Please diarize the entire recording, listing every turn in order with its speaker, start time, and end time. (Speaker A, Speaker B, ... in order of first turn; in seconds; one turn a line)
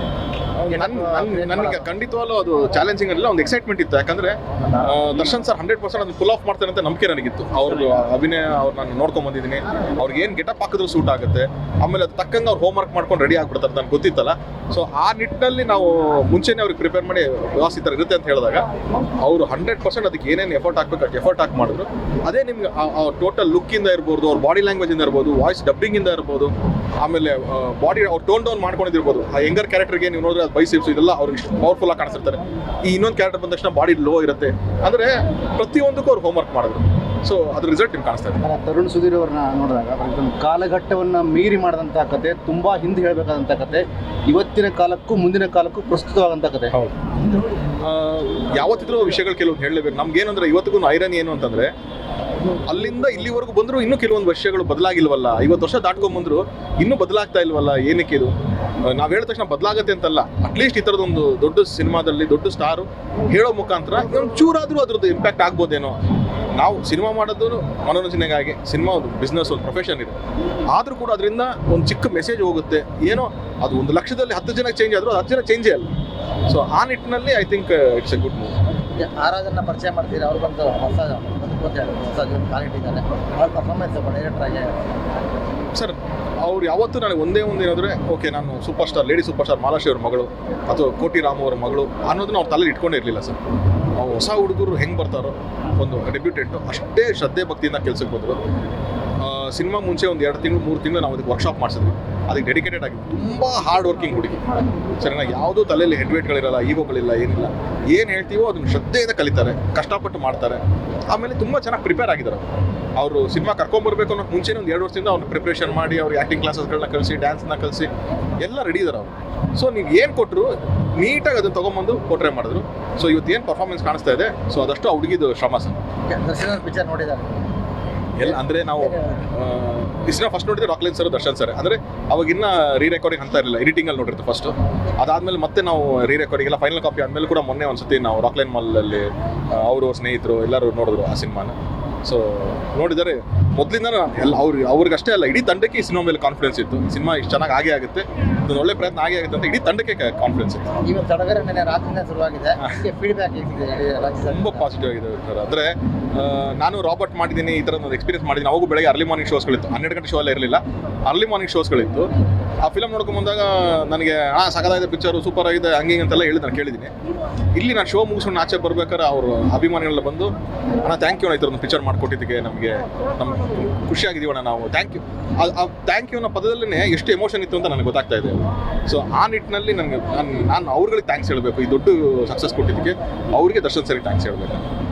Speaker A: 0.6-18.6
Speaker B: 0.7-1.9
Speaker A: 19.2-38.4
Speaker C: 38.5-46.7
Speaker A: 47.8-51.7
Speaker A: 52.7-66.0
Speaker A: 66.5-70.2
Speaker A: 70.7-75.9
Speaker A: 76.5-78.5
Speaker B: 79.0-84.7
Speaker A: 85.7-93.4
Speaker A: 93.9-98.4
Speaker A: 99.2-104.4
Speaker A: 105.0-117.9
Speaker A: 118.4-125.8
Speaker B: 126.1-127.5
Speaker A: 128.2-150.7
Speaker B: 128.2-129.2
Speaker B: 150.8-154.7
Speaker A: 154.3-162.1
Speaker A: 162.6-166.9
Speaker A: 167.5-184.6